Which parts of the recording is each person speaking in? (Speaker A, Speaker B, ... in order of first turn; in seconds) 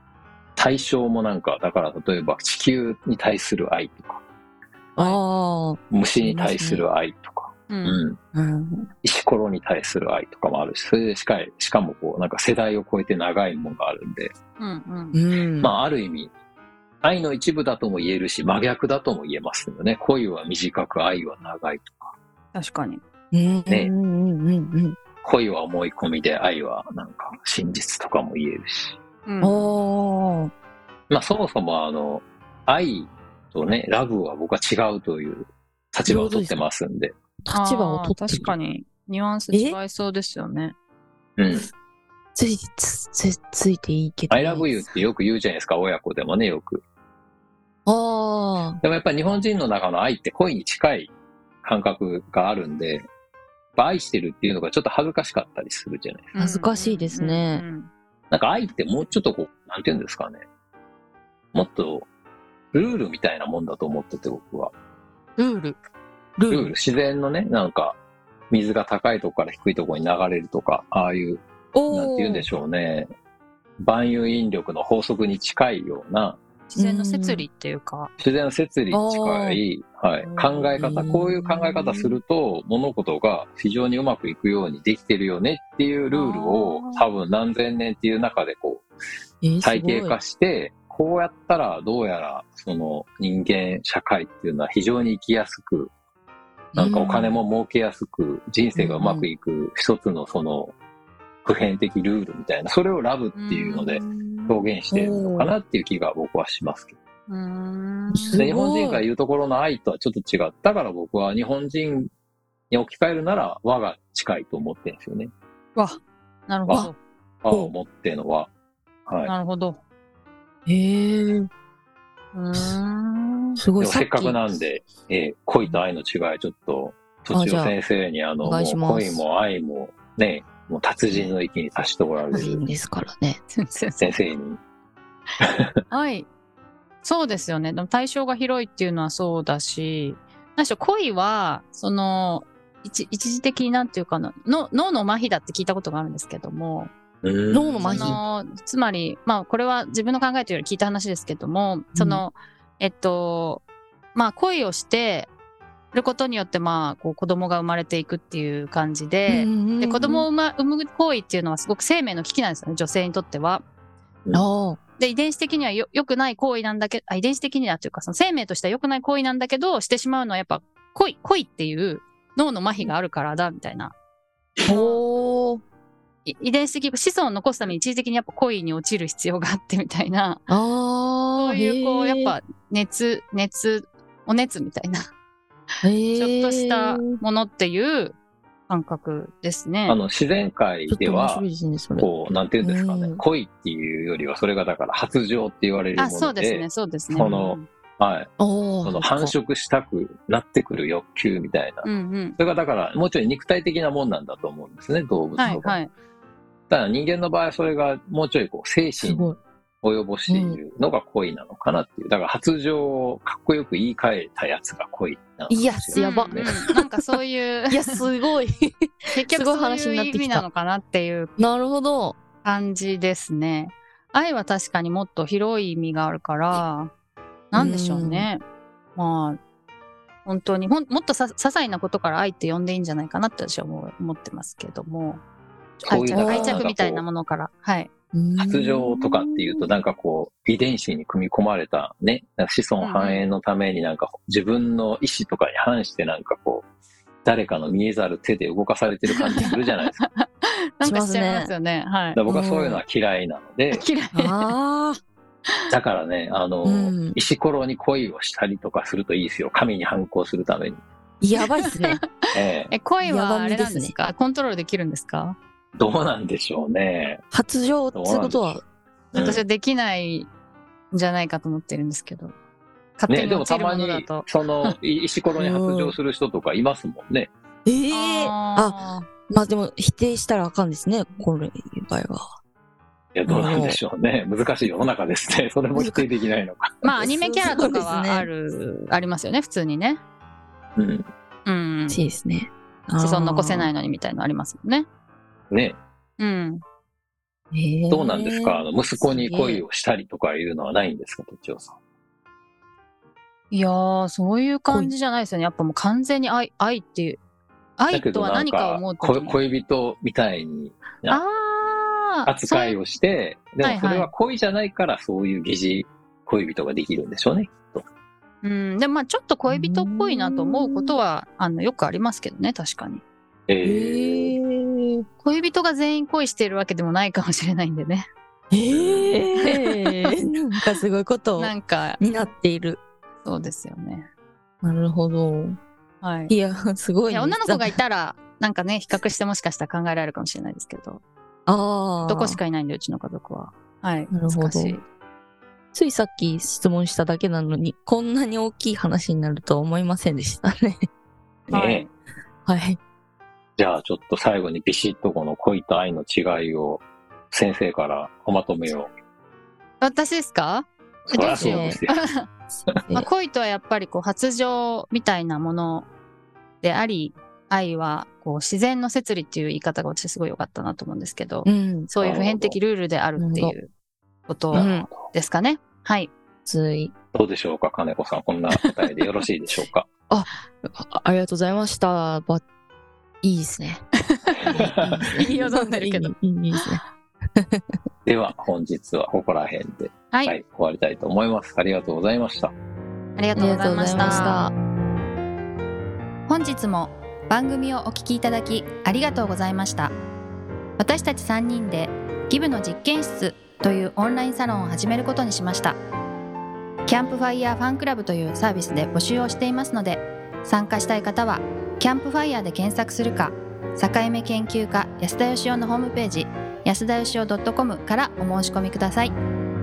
Speaker A: 0.6-4.2, 5.9-8.2, 9.0-14.3, 15.6-16.3, 17.0-22.1, 25.2-29.0, 31.1-37.1, 41.4-41.7, 44.3-46.8, 48.8-51.1, 51.6-53.1, 53.8-56.3, 58.3-60.4, 61.5-62.1, 62.7-64.7, 66.5-68.0, 68.5-73.1, 73.8-76.4, 78.2-88.9, 89.6-95.9, 96.8-100.8, 101.5-107.0, 108.4-112.1, 112.7-115.3, 117.4-118.5, 119.1-119.3, 123.8-132.7, 134.0-134.6, 135.4-135.7, 147.2-148.2, 189.9-191.4, 192.0-198.3, 198.8-205.8, 206.7-209.3, 209.8-216.6, 235.8-237.1, 238.4-246.7, 247.2-250.0, 252.2-253.8, 255.7-260.8, 262.3-262.7, 265.8-267.2, 267.9-268.6, 269.1-269.4, 273.1-277.3, 283.1-287.7, 290.8-291.1, 295.5-295.8, 297.9-301.8, 307.9-311.2, 312.3-317.9, 323.5-324.4, 328.7-329.3, 351.5-351.9, 353.6-358.9, 361.1-362.0, 372.0-372.6, 374.5-375.1, 377.1-379.9, 384.5-385.2, 388.1-392.5
Speaker B: 5.0-6.8, 8.3-8.9, 15.1-15.7, 23.3-25.0, 29.4-30.5, 36.1-36.6, 37.4-38.5, 42.4-45.0, 47.9-48.8, 56.4-57.6, 65.4-65.8, 66.4-66.7, 71.7-72.5, 76.8-77.5, 78.9-79.6, 80.2-82.2, 89.4-90.2, 96.7-97.4, 98.8-99.3, 104.1-105.5, 108.1-109.0, 120.7-121.5, 123.6-124.4, 127.3-127.7, 128.4-129.2, 132.3-133.4, 147.5-148.2, 151.9-152.2, 159.3-160.3, 164.3-164.8, 174.7-175.6, 180.5-182.4, 185.8-187.2, 190.9-193.2, 197.1-197.4, 198.4-199.3, 209.0-209.4, 210.3-210.6, 215.5-217.1, 217.7-220.5, 221.4-222.2, 227.6-228.3, 235.9-236.7, 238.1-239.7, 250.8-251.5, 252.2-252.8, 254.1-255.0, 256.6-257.2, 261.2-262.0, 263.0-264.0, 267.3-268.6, 275.4-276.0, 277.7-278.8, 279.3-282.4, 283.3-283.8, 285.7-286.1, 287.0-288.3, 291.9-293.7, 297.5-299.6, 319.5-321.0, 323.6-325.1, 328.5-332.8, 334.6-335.6, 336.3-337.7, 341.5-342.4, 344.1-344.8, 345.7-350.9, 352.5-352.8, 361.2-361.8, 362.7-363.1, 371.4-371.9, 373.2-373.6, 374.6-374.9, 376.5-376.9, 380.1-382.4, 383.2-383.8, 384.5-386.8, 393.3-394.5
Speaker C: 7.7-8.0, 14.6-15.2, 22.5-23.0, 29.3-29.7, 37.5-40.8, 56.3-57.9, 76.7-78.1, 86.1-87.1, 103.3-104.0, 107.3-108.4, 115.8-117.0, 119.3-119.8, 122.3-123.6, 133.6-134.2, 135.9-136.3, 137.0-146.9, 147.8-153.6, 154.2-155.3, 155.9-163.6, 165.0-173.9, 174.7-175.0, 176.2-180.4, 181.4-185.1, 186.2-188.2, 188.7-190.0, 196.0-197.7, 201.8-202.4, 205.4-205.9, 215.9-218.0, 219.1-221.3, 222.4-226.9, 227.5-228.4, 229.0-229.4, 230.3-235.2, 235.8-237.9, 242.8-243.2, 249.4-252.2, 253.7-254.5, 261.6-261.9, 262.7-265.4, 269.1-270.3, 270.9-272.3, 273.0-274.8, 277.9-279.1, 286.8-290.0, 291.5-292.0, 293.0-294.9, 296.2-296.6, 303.5-307.2, 307.8-309.4, 311.1-312.8, 313.6-314.1, 318.4-323.0, 325.2-328.1, 329.4-330.2, 331.4-332.0, 333.2-334.1, 336.0-336.3, 337.1-341.0, 342.1-344.8, 351.5-351.9, 359.8-362.3, 362.9-365.9, 366.6-373.7, 374.3-376.1, 384.2-384.6, 385.2-386.1, 390.1-390.4, 393.2-394.4, 396.3-399.9, 400.8-405.8, 406.9-419.1